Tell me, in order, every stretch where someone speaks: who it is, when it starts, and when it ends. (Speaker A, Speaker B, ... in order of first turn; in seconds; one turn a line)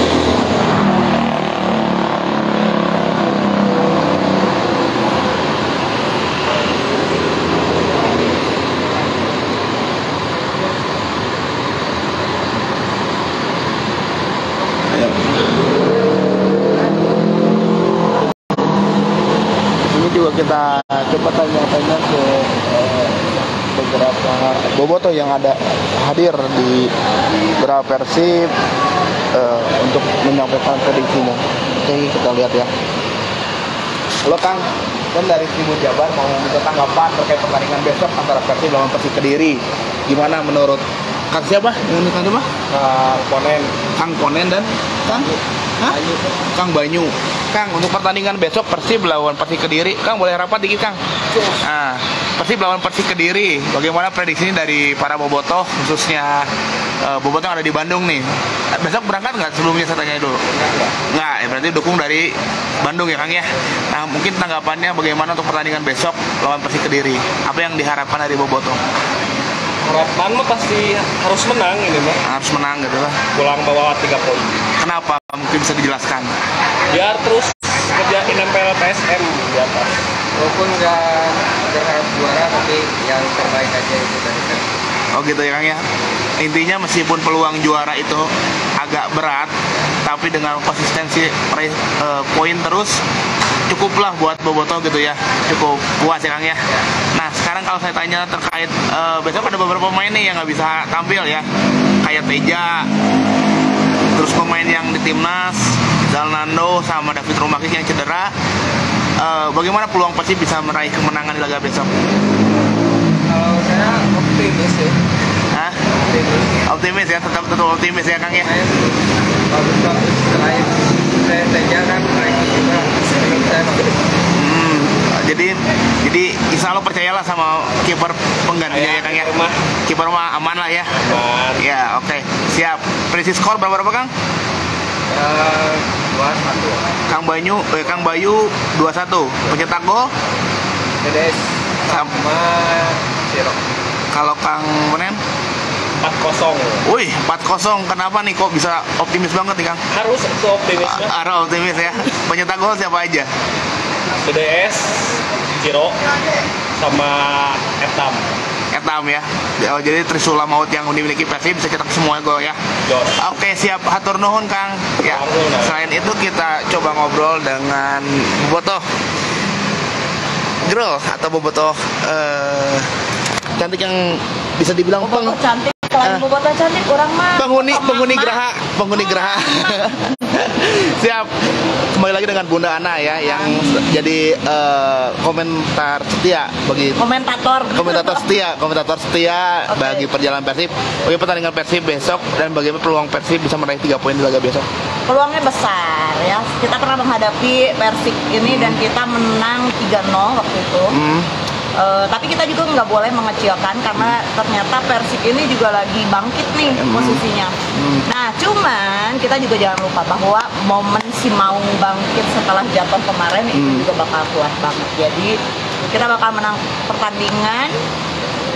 Speaker A: 14.9-15.2
Speaker A: 19.8-23.2
Speaker A: 23.7-26.9
Speaker A: 27.6-28.5
Speaker A: 29.3-32.7
Speaker A: 34.2-42.5
Speaker B: 42.7-43.7
Speaker A: 44.0-46.0
Speaker B: 45.9-46.2
Speaker A: 46.5-56.5
Speaker A: 57.0-68.8
Speaker B: 69.8-72.2
Speaker A: 72.2-73.2
Speaker B: 73.3-74.6
Speaker A: 74.8-76.3
Speaker B: 76.9-80.0
Speaker C: 80.3-84.7
Speaker A: 85.1-85.8
Speaker A: 86.4-89.5
Speaker A: 90.0-93.0
Speaker A: 93.7-101.5
Speaker A: 102.0-102.9
Speaker A: 104.1-108.3
Speaker A: 109.2-111.9
Speaker C: 113.3-115.0
Speaker A: 115.5-115.8
Speaker C: 116.1-116.6
Speaker A: 116.6-118.5
Speaker C: 118.4-119.0
Speaker C: 119.5-123.9
Speaker A: 124.3-129.3
Speaker B: 128.7-129.6
Speaker A: 129.8-134.1
Speaker B: 130.9-131.6
Speaker C: 135.1-136.8
Speaker A: 137.1-140.1
Speaker C: 141.0-143.6
Speaker A: 141.9-142.1
Speaker A: 144.1-145.2
Speaker B: 146.0-146.8
Speaker A: 146.8-149.8
Speaker B: 149.9-151.1
Speaker A: 150.8-153.3
Speaker B: 154.2-156.0
Speaker B: 156.8-158.3
Speaker A: 158.7-162.6
Speaker B: 162.8-163.2
Speaker A: 163.2-168.8
Speaker B: 165.0-165.8
Speaker A: 170.6-172.9
Speaker A: 173.5-175.4
Speaker D: 175.0-178.4
Speaker A: 177.3-181.3
Speaker D: 179.0-179.7
Speaker A: 181.9-187.0
Speaker D: 187.0-188.3
Speaker A: 187.7-194.7
Speaker D: 189.7-190.1
Speaker D: 195.1-200.9
Speaker A: 198.4-198.8
Speaker A: 200.9-201.3
Speaker D: 201.8-217.8
Speaker A: 206.7-208.1
Speaker A: 213.5-213.8